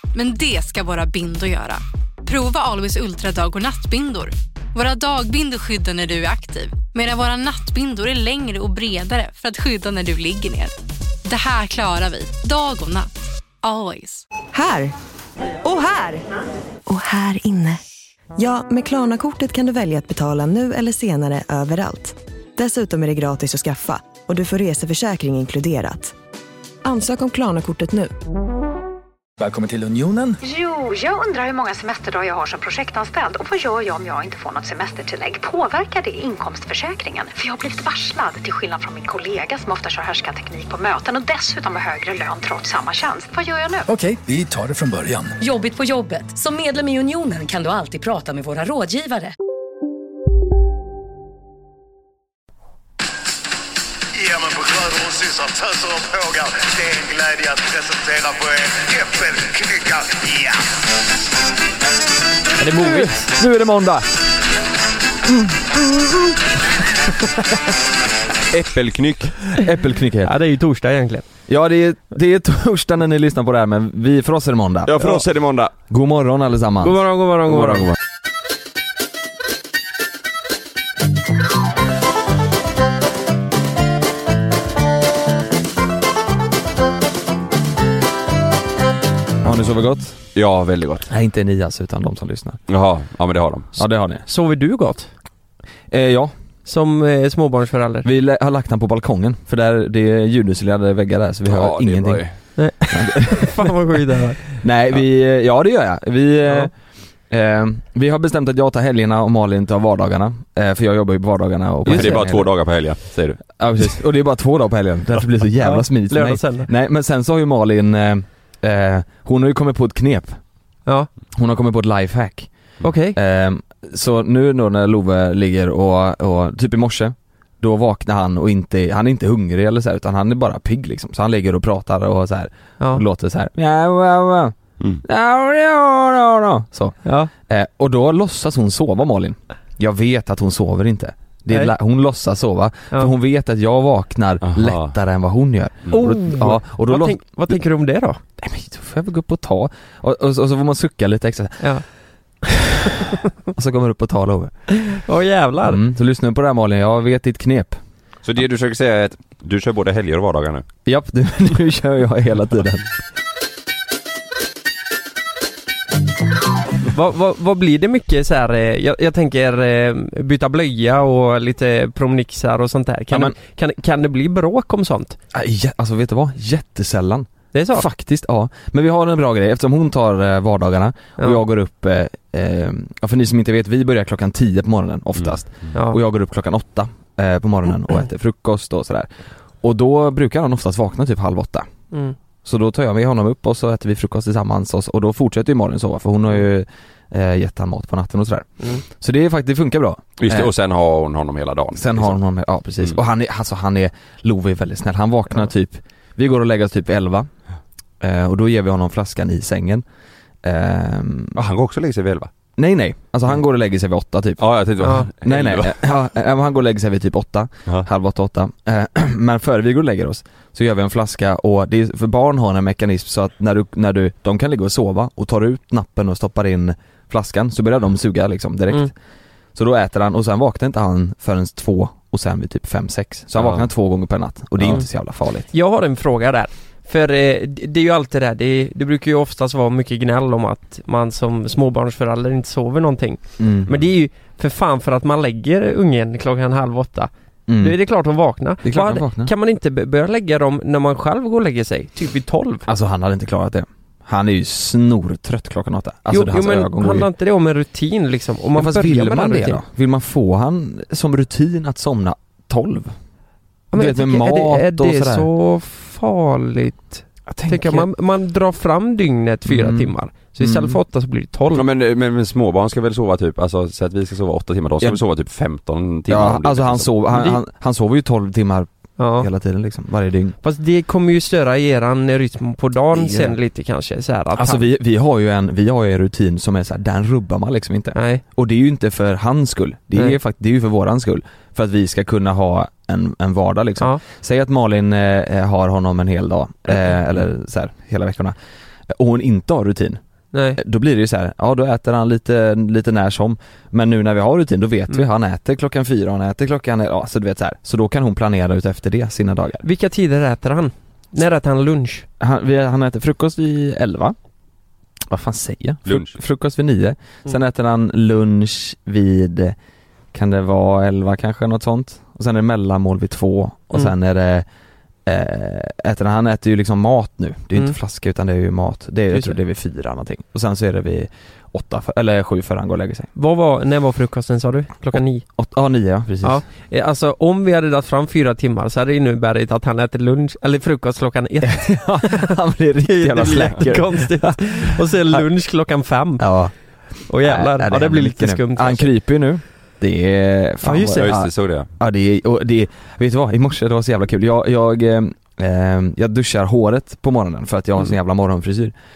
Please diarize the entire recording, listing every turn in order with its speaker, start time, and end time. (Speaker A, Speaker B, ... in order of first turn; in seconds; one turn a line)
Speaker A: 0.1-13.1
Speaker A: 13.6-14.2
Speaker B: 14.5-14.9
Speaker B: 15.6-16.2
Speaker B: 16.9-17.8
Speaker B: 18.4-26.1
Speaker B: 26.8-28.1
Speaker C: 29.4-30.4
Speaker D: 30.4-43.9
Speaker C: 43.9-45.3
Speaker E: 45.4-49.3
Speaker F: 54.2-60.2
Speaker G: 62.6-64.1
Speaker H: 62.7-63.2
Speaker G: 65.3-66.4
Speaker I: 68.5-69.5
Speaker G: 69.5-70.3
Speaker H: 70.2-71.2
Speaker G: 71.5-75.1
Speaker I: 74.9-75.7
Speaker G: 75.9-77.0
Speaker H: 76.8-77.9
Speaker G: 89.4-90.2
Speaker I: 90.3-91.1
Speaker G: 91.1-92.6
Speaker I: 92.7-93.7
Speaker G: 93.8-94.2
Speaker H: 94.3-95.1
Speaker G: 95.9-96.3
Speaker H: 96.7-98.1
Speaker G: 98.0-102.3
Speaker I: 101.5-102.3
Speaker H: 102.6-104.5
Speaker G: 102.9-103.7
Speaker G: 104.6-106.7
Speaker G: 107.3-112.5
Speaker H: 111.8-112.2
Speaker I: 111.9-113.4
Speaker G: 113.5-120.4
Speaker H: 115.6-116.7
Speaker G: 121.3-122.5
Speaker H: 122.8-123.2
Speaker G: 123.1-147.2
Speaker H: 132.8-133.1
Speaker H: 137.1-137.3
Speaker I: 144.4-144.9
Speaker H: 145.9-148.2
Speaker G: 148.4-151.7
Speaker G: 153.6-154.5
Speaker H: 154.7-155.8
Speaker G: 155.7-157.8
Speaker I: 158.2-160.7
Speaker G: 160.9-162.9
Speaker H: 166.9-175.2
Speaker G: 175.3-189.1
Speaker H: 177.5-177.9
Speaker G: 189.6-191.7
Speaker G: 192.4-200.5
Speaker I: 200.2-202.2
Speaker G: 201.8-207.3
Speaker G: 208.0-209.8
Speaker G: 210.4-211.4
Speaker I: 211.3-212.3
Speaker G: 212.6-228.9
Speaker I: 214.4-215.8
Speaker H: 214.8-215.1
Speaker G: 229.6-235.5
Speaker I: 233.4-233.7
Speaker H: 235.5-252.7
Speaker G: 243.4-243.7
Speaker G: 247.5-247.8
Speaker G: 248.6-249.3
Speaker G: 252.7-257.1
Speaker H: 256.1-259.6
Speaker G: 258.5-262.9
Speaker H: 263.7-271.6
Speaker G: 263.7-265.3
Speaker G: 267.3-267.9
Speaker G: 269.5-270.8
Speaker I: 271.5-276.9
Speaker G: 276.1-280.4
Speaker H: 277.1-277.4
Speaker H: 279.0-279.3
Speaker H: 280.4-284.6
Speaker G: 282.9-283.4
Speaker G: 284.4-298.4
Speaker H: 287.9-288.2
Speaker G: 298.9-300.0
Speaker H: 300.3-300.6
Speaker G: 300.6-309.6
Speaker H: 309.6-312.1
Speaker G: 312.2-314.1
Speaker G: 315.1-319.6
Speaker I: 315.9-316.1
Speaker G: 320.1-324.4
Speaker G: 325.1-333.1
Speaker H: 333.2-335.2
Speaker G: 335.4-336.4
Speaker H: 336.2-346.3
Speaker G: 341.4-345.2
Speaker G: 346.2-346.5
Speaker H: 347.1-348.9
Speaker G: 347.2-358.7
Speaker H: 350.6-351.1
Speaker I: 351.0-351.7